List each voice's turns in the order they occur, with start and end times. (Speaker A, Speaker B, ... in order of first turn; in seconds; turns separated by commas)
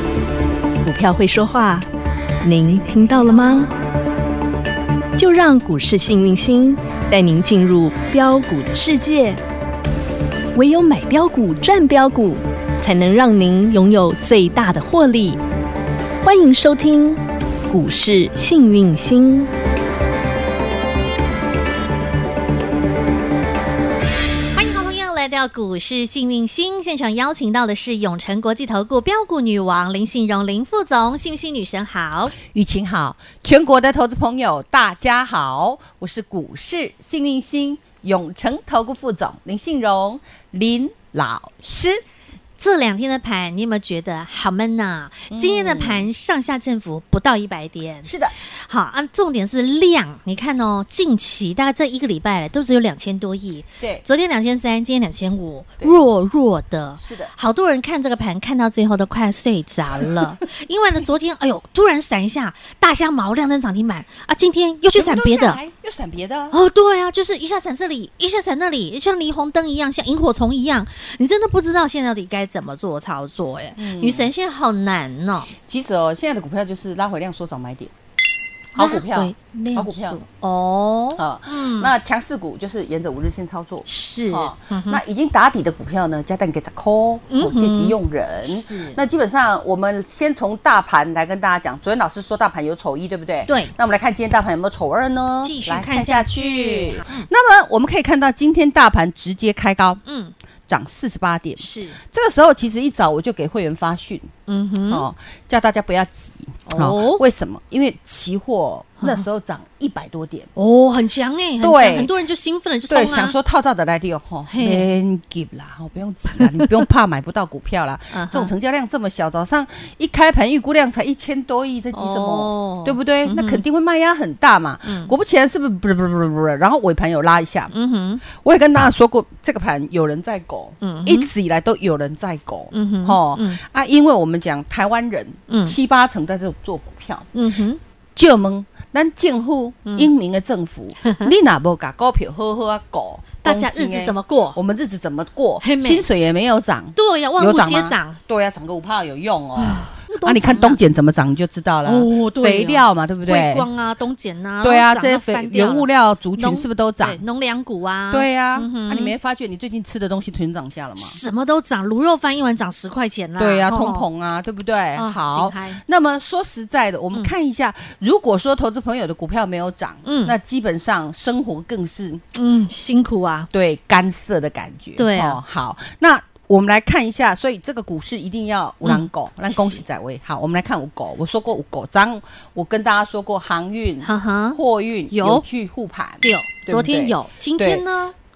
Speaker A: 0.8-1.9, Speaker A: 2.4-3.7, Speaker A: 5.2-9.4, Speaker A: 10.5-15.4, Speaker A: 16.2-19.5, Speaker B: 24.5-32.3, Speaker C: 32.4-42.0, Speaker B: 42.6-65.6, Speaker C: 45.3-46.1, Speaker C: 48.0-48.3, Speaker C: 57.0-57.3, Speaker C: 64.9-66.5, Speaker B: 66.5-75.5, Speaker C: 73.8-74.3, Speaker C: 75.7-77.9, Speaker C: 78.7-80.2, Speaker B: 78.7-81.9, Speaker C: 81.2-100.0, Speaker B: 83.9-85.0, Speaker B: 87.3-89.0, Speaker B: 93.5-93.7, Speaker B: 95.4-97.3, Speaker B: 100.0-100.3, Speaker C: 100.7-104.3, Speaker B: 101.6-102.0, Speaker B: 104.5-105.1, Speaker C: 104.9-110.5, Speaker B: 106.7-107.2, Speaker B: 110.5-113.3, Speaker C: 111.6-112.1, Speaker C: 112.9-127.7, Speaker B: 114.5-114.9, Speaker B: 116.4-116.7, Speaker B: 118.1-118.5, Speaker B: 121.9-123.6, Speaker B: 124.8-125.1, Speaker B: 127.7-128.2, Speaker C: 128.2-137.3, Speaker B: 130.8-131.3, Speaker B: 132.7-133.6, Speaker B: 135.5-135.8, Speaker B: 137.3-137.8, Speaker C: 138.1-153.7, Speaker B: 143.4-144.6, Speaker B: 145.6-146.0, Speaker B: 146.9-148.2, Speaker B: 149.6-150.8, Speaker B: 151.8-159.2, Speaker C: 154.6-157.2, Speaker C: 158.1-161.2, Speaker B: 161.0-164.1, Speaker C: 163.4-172.2, Speaker B: 164.9-165.8, Speaker B: 170.0-170.3, Speaker B: 172.3-173.5, Speaker C: 173.5-187.8, Speaker B: 175.0-175.4, Speaker B: 178.8-179.8, Speaker B: 184.0-185.4, Speaker B: 186.2-188.1